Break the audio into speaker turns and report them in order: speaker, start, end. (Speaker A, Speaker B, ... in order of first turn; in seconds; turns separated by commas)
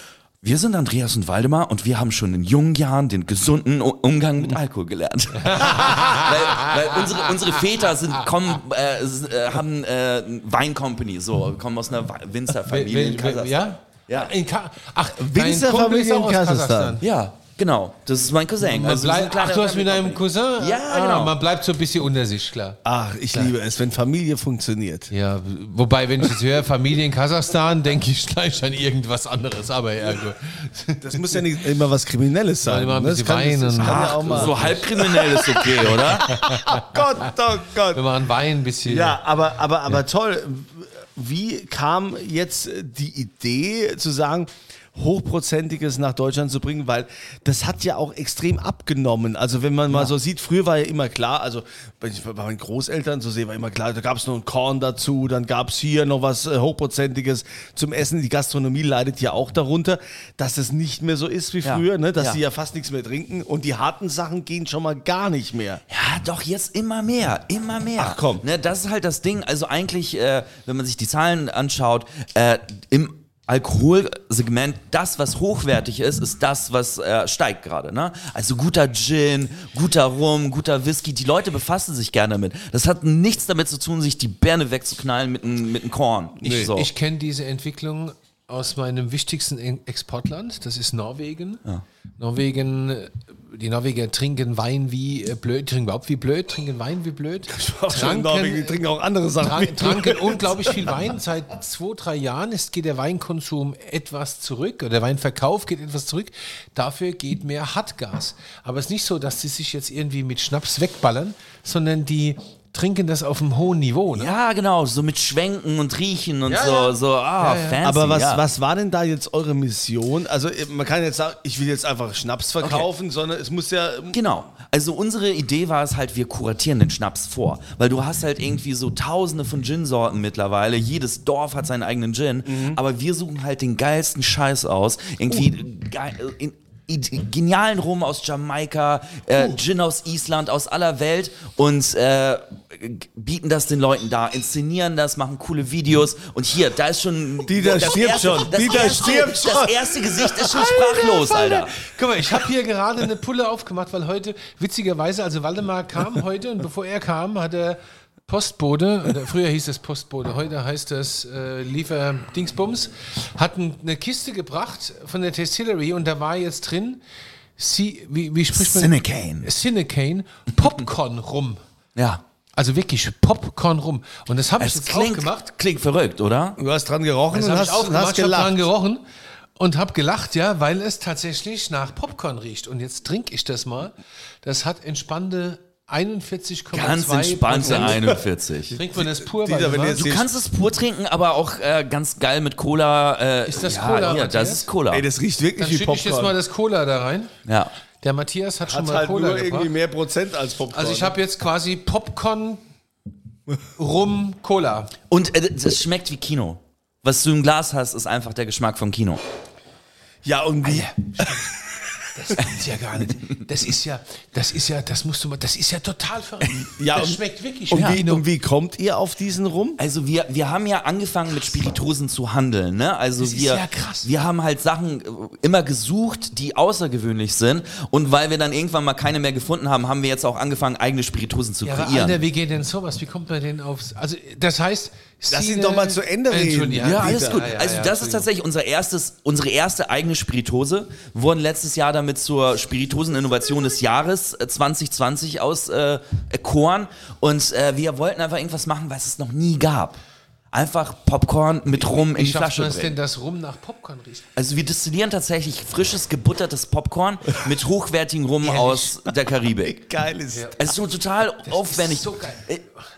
Speaker A: 0.4-14.3, Speaker B: 5.5-6.7, Speaker B: 12.7-17.0, Speaker C: 15.2-17.0, Speaker A: 17.0-21.4, Speaker B: 18.6-22.8, Speaker C: 22.9-25.1, Speaker B: 25.1-31.2, Speaker C: 31.0-34.8, Speaker B: 32.6-36.9, Speaker A: 33.8-36.4, Speaker C: 36.3-38.0, Speaker B: 37.9-39.2, Speaker C: 38.9-65.8, Speaker A: 61.6-62.4, Speaker A: 65.9-86.9, Speaker C: 68.0-68.4, Speaker B: 86.5-91.6, Speaker B: 92.2-98.8, Speaker C: 97.5-100.9, Speaker B: 99.4-114.3, Speaker A: 114.1-118.4, Speaker B: 116.5-117.8, Speaker C: 117.8-124.2, Speaker A: 122.6-122.9, Speaker A: 124.1-151.8, Speaker C: 132.5-132.8, Speaker C: 147.5-149.9, Speaker B: 150.4-167.0, Speaker B: 167.6-171.6, Speaker A: 168.6-169.5, Speaker A: 172.0-172.2, Speaker B: 172.6-175.5, Speaker A: 174.6-176.6, Speaker C: 176.6-178.7, Speaker B: 177.3-179.0, Speaker B: 179.6-188.1, Speaker A: 186.7-188.8, Speaker C: 187.6-188.2, Speaker B: 188.7-190.1, Speaker C: 188.8-190.3, Speaker A: 189.9-195.1, Speaker B: 193.5-194.7, Speaker C: 194.9-196.4, Speaker B: 195.6-197.3, Speaker B: 198.0-199.7, Speaker C: 198.7-201.1, Speaker B: 200.7-202.6, Speaker B: 203.8-204.9, Speaker A: 205.1-209.2, Speaker C: 210.2-210.9, Speaker B: 210.6-211.5, Speaker B: 212.1-218.2, Speaker C: 216.6-219.8, Speaker A: 219.8-232.2, Speaker B: 223.2-224.1, Speaker B: 231.6-238.3, Speaker C: 235.3-237.4, Speaker A: 236.8-250.0, Speaker A: 250.5-253.0, Speaker B: 251.8-254.3, Speaker A: 254.4-259.8, Speaker B: 258.4-259.0, Speaker C: 259.6-260.6, Speaker B: 260.3-260.7, Speaker A: 260.6-262.6, Speaker B: 261.4-262.5